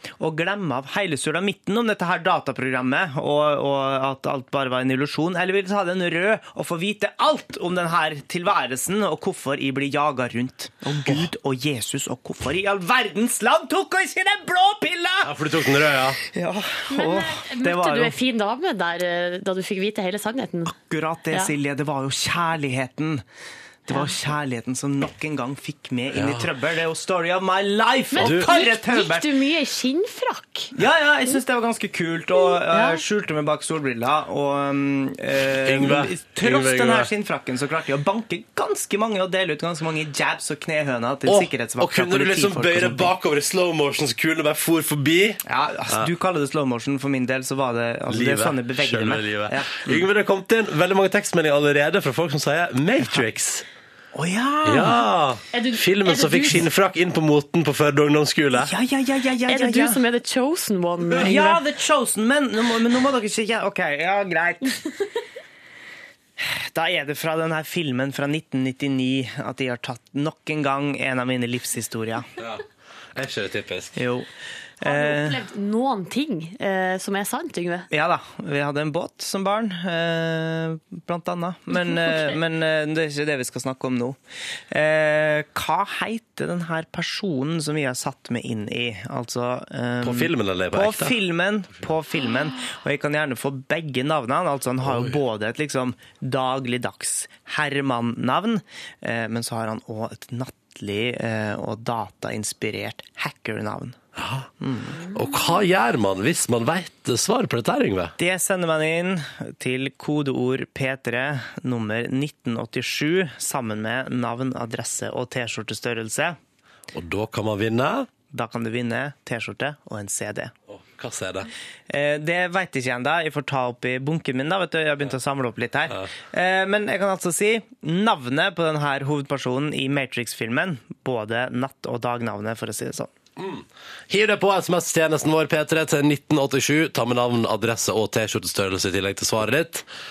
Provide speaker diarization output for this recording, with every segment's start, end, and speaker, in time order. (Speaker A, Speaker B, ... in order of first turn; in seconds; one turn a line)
Speaker A: 0.2-15.3
Speaker B: 15.2-16.2
Speaker A: 16.3-18.1
Speaker C: 16.9-20.7
Speaker A: 20.7-23.2
Speaker A: 23.9-29.3
Speaker B: 26.1-26.5
Speaker C: 28.1-30.7
Speaker B: 28.2-28.5
Speaker A: 30.8-43.1
Speaker C: 32.7-33.0
Speaker B: 35.6-37.1
Speaker B: 41.2-46.1
Speaker A: 45.5-50.0
Speaker B: 48.1-53.6
Speaker A: 54.1-55.0
Speaker B: 54.6-58.7
Speaker C: 55.5-56.6
Speaker A: 58.6-60.0
Speaker C: 59.5-61.6
Speaker A: 61.2-64.8
Speaker A: 66.4-72.2
Speaker B: 72.4-72.6
Speaker B: 73.1-74.0
Speaker A: 74.0-74.3
Speaker A: 74.8-75.4
Speaker C: 74.8-77.9
Speaker A: 77.9-84.2
Speaker A: 84.7-104.0
Speaker B: 90.0-91.2
Speaker B: 94.8-95.2
Speaker B: 104.2-104.5
Speaker A: 104.6-105.0
Speaker B: 105.1-108.1
Speaker A: 108.2-116.3
Speaker B: 116.9-118.1
Speaker A: 118.3-120.5
Speaker B: 120.7-121.5
Speaker A: 121.9-133.1
Speaker B: 133.4-139.9